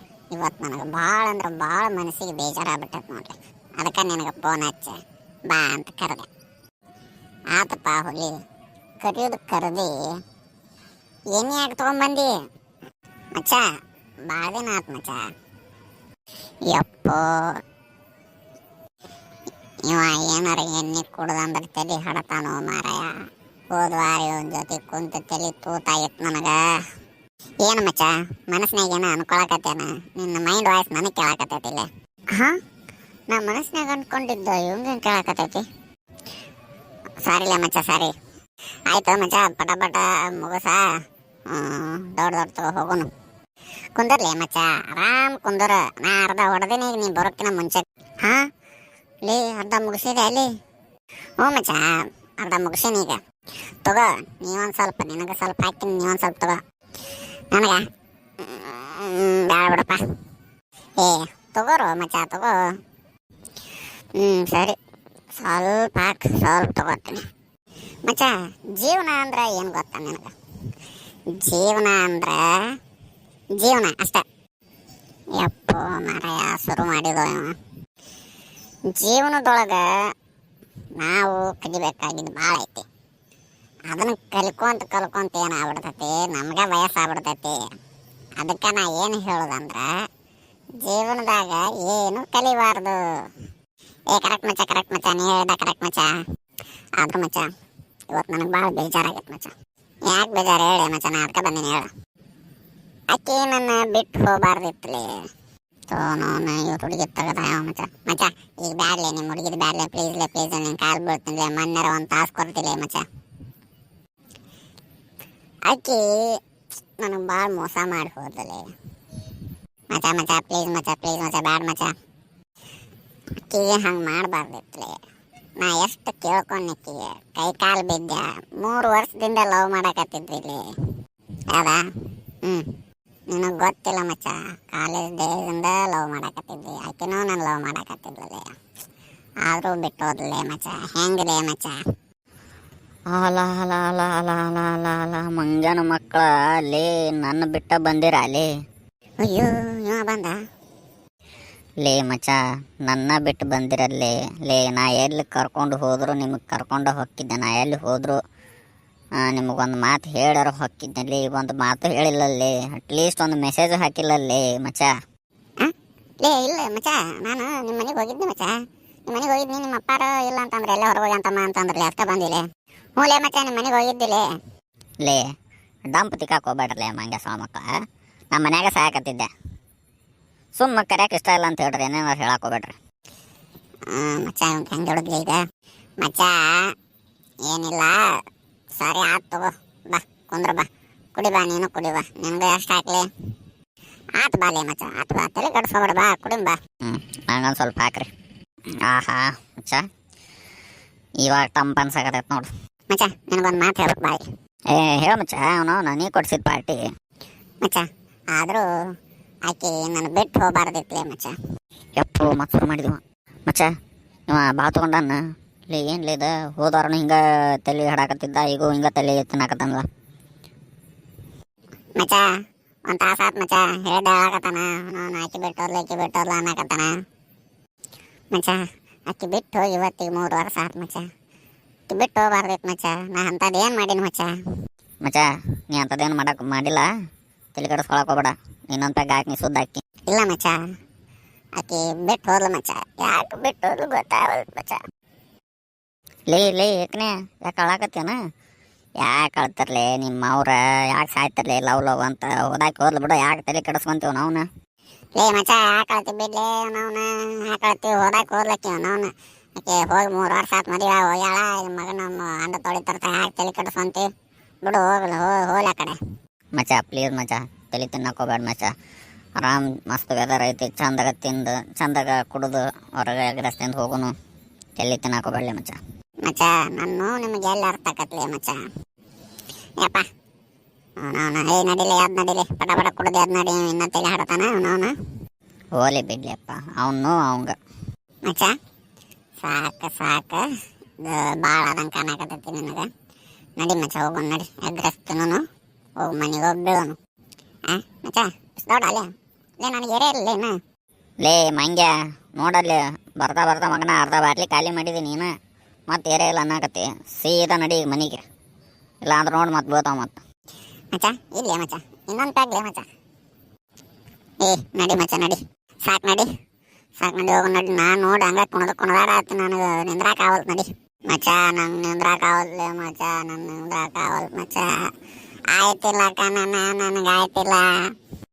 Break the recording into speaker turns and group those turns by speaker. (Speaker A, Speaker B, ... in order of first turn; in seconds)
Speaker A: 0.3-6.3, 7.5-8.3, 9.0-10.0, 11.3-12.3, 13.3-13.6, 14.3-15.3, 16.7-17.2, 19.8-23.1, 23.7-26.6, 27.6-32.6, 33.3-35.6, 37.2-38.1, 38.9-40.9, 41.5-43.1, 43.9-48.4, 49.2-50.5, 51.4-53.2, 53.8-56.6, 57.5-57.8, 58.4-60.0, 61.0-62.6, 64.2-64.7, 65.3-67.2, 68.0-70.3, 71.4-72.5, 73.6-74.2, 75.3-77.5, 78.9-79.9, 81.0-82.8, 83.9-87.6, 88.4-89.9, 90.8-93.0, 94.1-96.1, 97.0-97.5, 98.1-99.5, 100.0-101.9, 103.1-105.2, 105.9-113.0, 115.7-116.2, 117.0-118.7, 119.9-121.9, 123.5-125.0, 125.6-130.6, 131.5-131.8, 133.3-138.5, 139.4-141.8, 149.2-150.4, 165.6-168.5, 169.1-172.4, 173.0-174.3, 183.9-185.4, 186.0-186.7, 187.4-188.1, 188.8-193.1, 194.2-196.6, 202.9-204.2, 207.6-208.6, 209.4-211.3, 221.9-222.2, 222.9-226.9, 228.3-231.1, 231.9-234.3, 240.1-240.6, 241.6-244.8, 255.2-264.1, 264.6-266.0, 276.2-278.6, 279.8-280.0, 281.0-284.9, 288.2-288.5, 289.4-290.4, 291.0-292.9, 293.6-295.4, 296.0-296.9, 297.7-299.1, 299.6-300.6, 310.9-312.9, 314.4-316.3, 317.0-324.8, 325.5-327.8
Speaker B: 143.1-148.5, 151.8-158.2, 159.2-164.9, 175.9-177.7, 178.3-179.3, 180.6-182.8, 196.8-198.1, 198.8-199.8, 201.2-202.5, 204.7-206.8, 211.9-213.7, 214.3-215.2, 215.7-219.8, 235.0-236.9, 237.5-239.8, 246.3-248.2, 249.0-254.5, 266.6-268.7, 269.4-274.1, 274.8-275.8, 285.8-287.5, 301.2-305.3, 305.9-308.2, 309.0-310.2